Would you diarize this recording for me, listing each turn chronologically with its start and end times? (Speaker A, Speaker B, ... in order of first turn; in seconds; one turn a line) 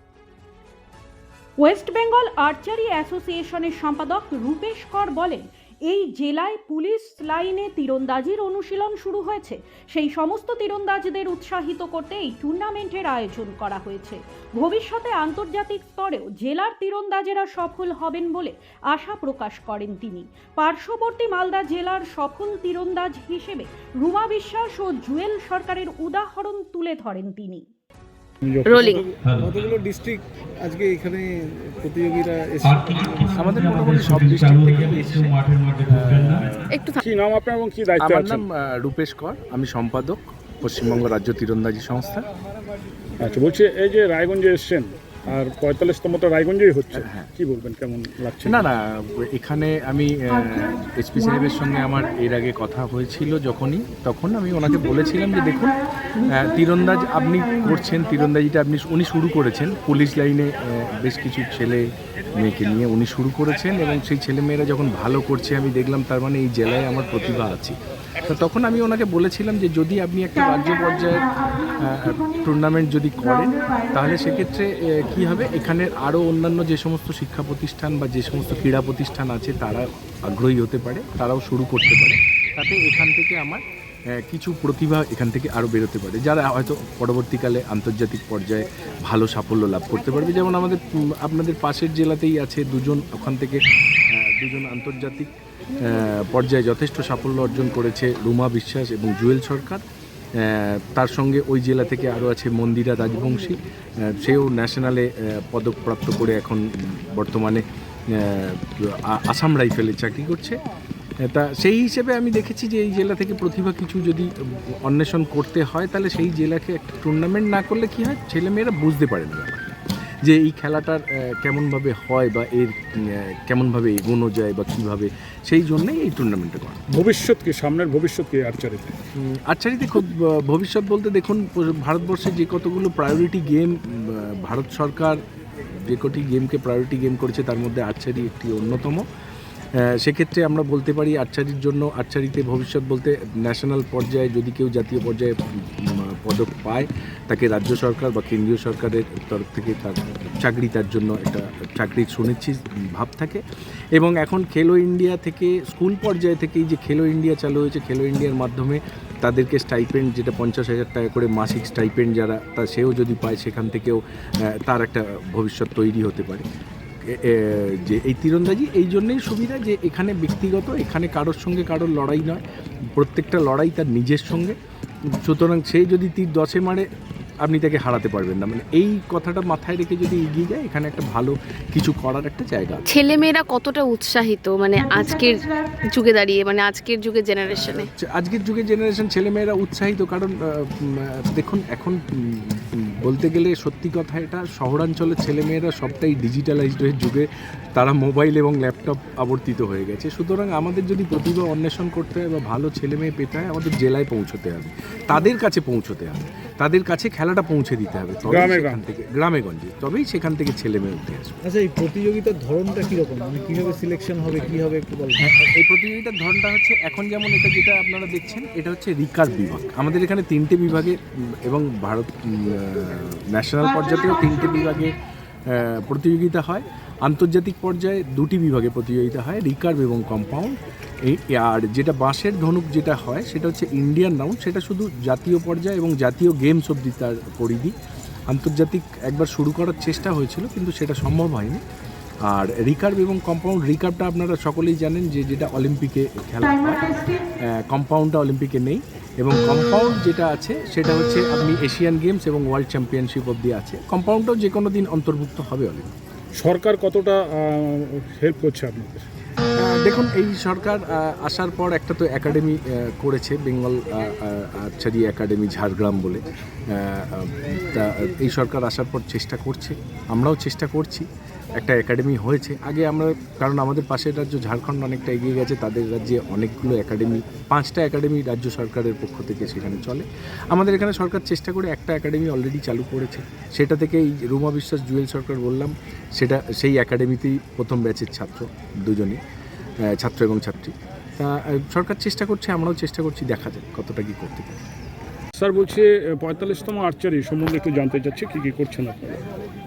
Speaker A: 1.6-27.6
Speaker B: 28.4-29.2
Speaker C: 28.6-29.1
Speaker D: 29.3-33.6
Speaker E: 33.3-36.5
Speaker C: 36.7-37.0
Speaker B: 37.0-38.4
Speaker E: 38.0-42.2
Speaker B: 43.2-48.6
Speaker E: 47.0-47.3
Speaker E: 48.4-61.9
Speaker E: 62.4-83.6
Speaker E: 84.1-99.8
Speaker E: 100.4-110.6
Speaker E: 111.2-126.8
Speaker B: 126.9-128.9
Speaker E: 129.2-135.2
Speaker E: 135.8-139.0
Speaker E: 139.8-153.4
Speaker E: 153.9-166.4
Speaker E: 167.0-172.4
Speaker E: 172.9-174.6
Speaker E: 175.2-176.8
Speaker E: 177.4-182.8
Speaker C: 182.9-187.9
Speaker E: 188.0-211.4
Speaker B: 208.3-208.8
Speaker D: 211.4-215.2
Speaker E: 215.2-225.0
Speaker E: 225.5-237.7
Speaker E: 238.3-241.6
Speaker E: 242.3-255.9
Speaker B: 256.4-259.1
Speaker E: 259.6-289.2
Speaker E: 289.8-294.6
Speaker B: 295.4-299.2